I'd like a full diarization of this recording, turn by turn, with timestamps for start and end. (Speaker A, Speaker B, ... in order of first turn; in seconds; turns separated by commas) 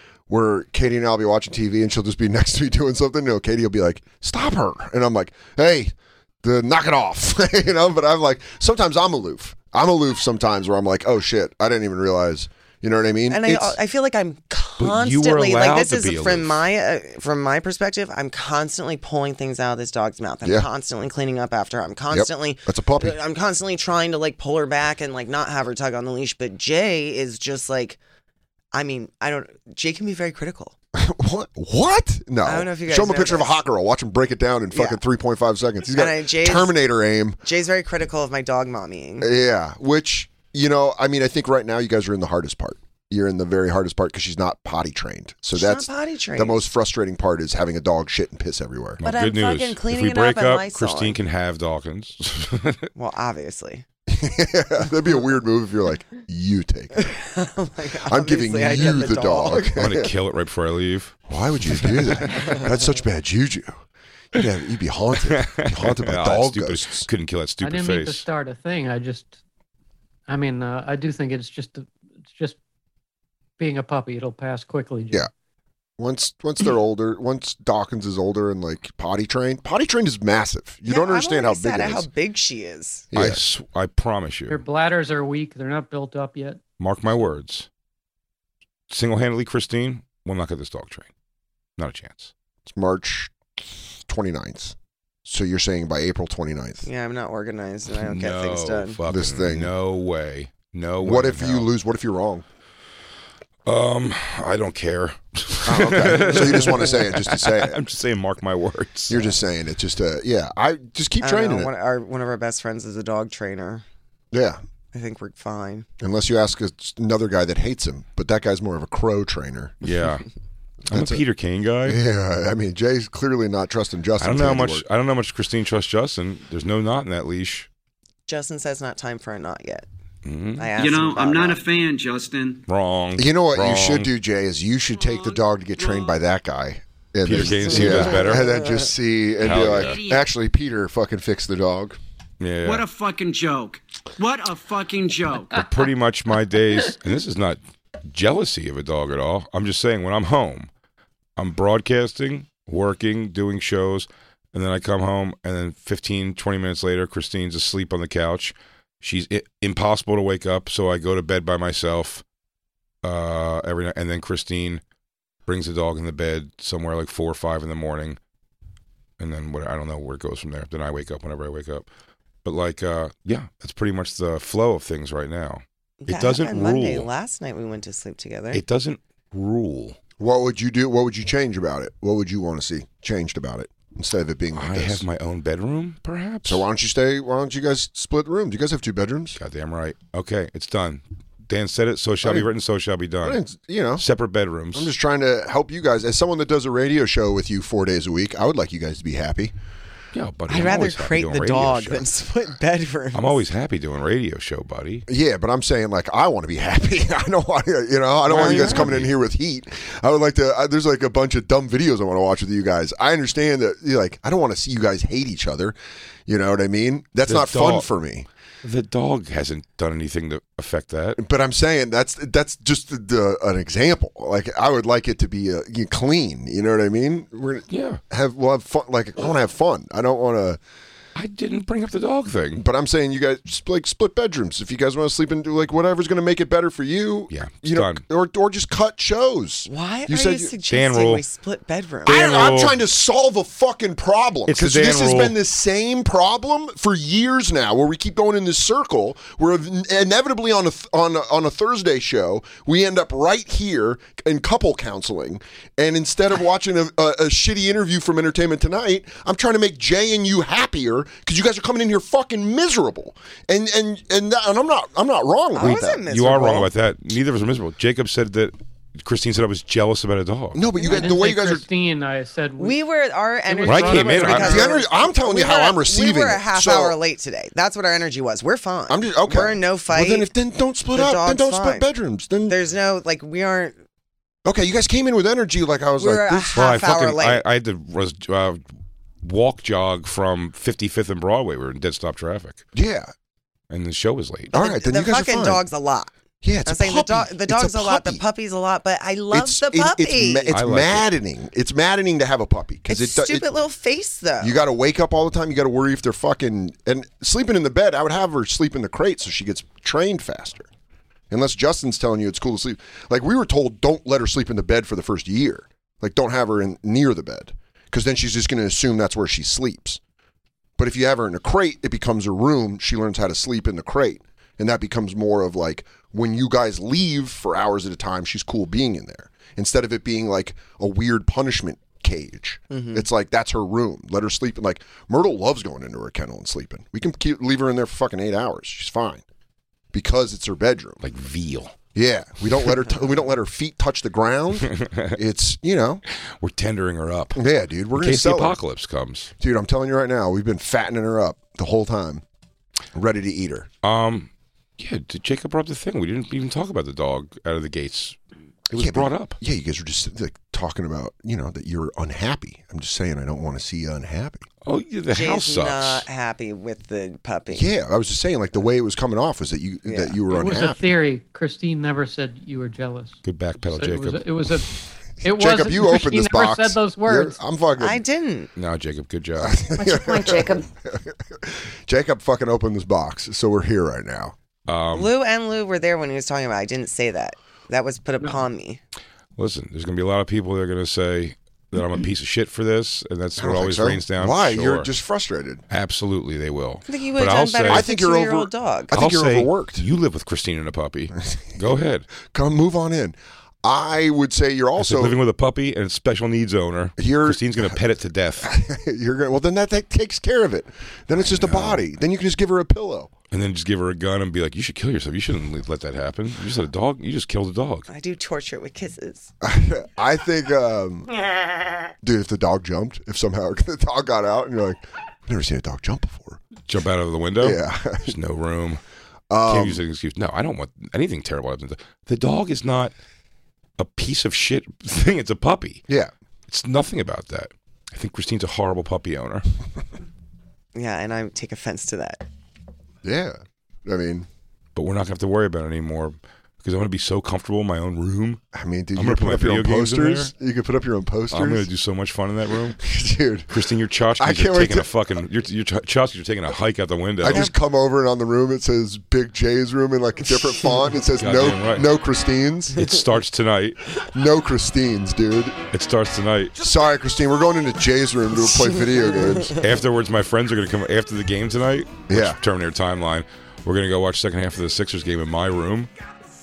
Speaker A: 0.3-13.8, Speaker B: 13.3-28.0, Speaker C: 14.8-16.6, Speaker A: 22.1-23.2, Speaker B: 28.7-30.7, Speaker A: 30.9-37.4, Speaker B: 32.4-33.6, Speaker B: 34.7-35.0, Speaker B: 35.9-36.7, Speaker B: 37.4-39.3, Speaker A: 39.2-49.0, Speaker B: 45.5-46.7, Speaker C: 49.0-52.9, Speaker B: 49.0-51.2, Speaker B: 53.0-53.8, Speaker A: 54.1-57.1, Speaker B: 56.9-59.7, Speaker A: 58.0-60.1, Speaker C: 59.8-61.2, Speaker A: 61.3-63.8, Speaker C: 61.8-62.5, Speaker A: 64.3-67.1, Speaker C: 65.3-68.2, Speaker D: 67.6-69.4, Speaker D: 70.3-72.6, Speaker D: 73.6-75.2, Speaker A: 76.0-82.1, Speaker B: 80.9-83.1, Speaker A: 83.1-83.4, Speaker C: 83.1-84.6, Speaker D: 84.5-86.6, Speaker C: 86.8-87.7, Speaker C: 88.9-91.1, Speaker C: 91.8-92.3, Speaker A: 92.7-93.4, Speaker A: 94.1-96.8, Speaker B: 96.8-99.0, Speaker C: 98.0-101.7, Speaker A: 99.1-99.7, Speaker A: 101.0-102.4, Speaker C: 103.7-109.2, Speaker A: 105.6-107.8, Speaker A: 109.1-111.7, Speaker B: 111.2-113.8, Speaker A: 114.3-114.6, Speaker B: 114.9-115.8, Speaker A: 116.0-119.9, Speaker C: 119.8-120.2, Speaker A: 120.9-121.2, Speaker C: 120.9-122.0, Speaker A: 121.8-124.8, Speaker C: 124.2-127.7, Speaker B: 128.3-129.8, Speaker C: 130.2-130.7, Speaker B: 130.6-131.6, Speaker E: 130.8-132.6, Speaker C: 132.7-134.1, Speaker A: 133.2-142.0, Speaker E: 135.1-136.1, Speaker C: 137.2-138.5, Speaker B: 137.7-138.6, Speaker C: 139.4-140.0, Speaker E: 139.5-140.2, Speaker C: 142.4-142.8, Speaker E: 142.6-145.6, Speaker C: 145.5-150.7, Speaker C: 151.4-162.2, Speaker C: 163.0-164.8, Speaker C: 165.5-168.2, Speaker C: 169.2-171.9, Speaker C: 172.4-177.1, Speaker B: 176.0-178.6, Speaker C: 178.5-180.0, Speaker A: 180.2-185.0, Speaker C: 184.5-186.6, Speaker A: 186.4-189.4, Speaker C: 189.4-193.4, Speaker A: 193.2-194.0, Speaker C: 194.0-194.9, Speaker A: 194.7-199.5, Speaker C: 200.1-202.1, Speaker B: 200.5-203.4, Speaker C: 203.1-205.1, Speaker A: 205.1-218.3, Speaker C: 208.3-209.1, Speaker B: 208.4-208.8, Speaker C: 217.2-217.9, Speaker C: 218.6-221.2, Speaker A: 221.2-230.6, Speaker C: 227.7-228.0, Speaker C: 231.2-232.6, Speaker A: 232.6-240.5, Speaker C: 237.3-238.0, Speaker B: 239.7-242.3, Speaker C: 240.7-241.2, Speaker A: 242.1-266.0, Speaker C: 242.1-242.8, Speaker C: 244.5-245.3, Speaker B: 265.5-266.7, Speaker C: 265.6-270.6, Speaker A: 270.5-271.6, Speaker D: 270.8-272.8, Speaker B: 272.6-280.3, Speaker D: 273.5-274.7, Speaker C: 273.6-274.6, Speaker A: 274.4-277.0, Speaker A: 278.9-282.6, Speaker B: 280.9-281.9, Speaker B: 282.5-283.8, Speaker A: 284.4-286.6, Speaker B: 286.0-287.4, Speaker C: 286.5-288.6, Speaker C: 289.2-292.6, Speaker A: 292.7-293.1, Speaker C: 293.7-294.5, Speaker B: 294.5-296.1, Speaker A: 294.5-295.6, Speaker A: 296.4-298.2, Speaker B: 296.6-300.6, Speaker A: 299.3-303.4, Speaker C: 300.5-301.1, Speaker B: 302.9-304.6, Speaker A: 304.4-310.7, Speaker A: 311.3-320.0, Speaker A: 320.8-339.2, Speaker B: 332.7-333.1, Speaker A: 339.9-341.0, Speaker C: 341.0-341.7, Speaker A: 341.9-346.0, Speaker C: 344.6-345.1, Speaker C: 346.3-347.4, Speaker A: 347.4-348.6, Speaker C: 347.9-349.3, Speaker A: 349.4-352.2, Speaker A: 352.9-353.7, Speaker C: 353.8-358.2, Speaker C: 358.7-359.4, Speaker A: 358.7-364.4, Speaker C: 364.6-366.0, Speaker B: 365.1-367.7, Speaker A: 367.5-370.8, Speaker B: 369.9-370.2, Speaker D: 370.3-377.4, Speaker C: 373.2-374.2, Speaker A: 375.2-378.0, Speaker B: 377.8-378.5, Speaker C: 378.6-379.6, Speaker A: 379.4-384.4, Speaker C: 384.7-385.1, Speaker B: 384.9-388.8, Speaker C: 389.4-394.9, Speaker A: 393.4-395.6, Speaker C: 395.7-397.8, Speaker B: 396.9-398.9, Speaker A: 397.7-399.8, Speaker C: 398.9-402.1, Speaker A: 402.2-405.2, Speaker C: 404.8-408.5, Speaker A: 407.0-407.8, Speaker A: 408.4-413.1, Speaker C: 411.1-411.8, Speaker C: 413.3-417.9, Speaker B: 417.9-419.3, Speaker A: 419.4-421.1, Speaker A: 422.0-426.4, Speaker C: 426.7-428.8, Speaker A: 427.4-428.1, Speaker A: 429.3-429.8, Speaker C: 429.4-432.9, Speaker C: 433.8-435.8, Speaker C: 436.5-439.4, Speaker B: 440.7-442.2, Speaker A: 443.0-444.3, Speaker C: 444.7-448.4, Speaker A: 448.5-451.7, Speaker C: 448.9-450.3, Speaker C: 451.3-452.8, Speaker A: 452.8-453.6, Speaker C: 453.5-457.5, Speaker A: 454.2-454.9, Speaker A: 457.2-462.9, Speaker C: 461.1-461.9, Speaker C: 462.8-463.8, Speaker A: 464.0-465.6, Speaker C: 465.7-466.5, Speaker A: 466.6-469.6, Speaker C: 469.6-475.9, Speaker A: 472.1-472.4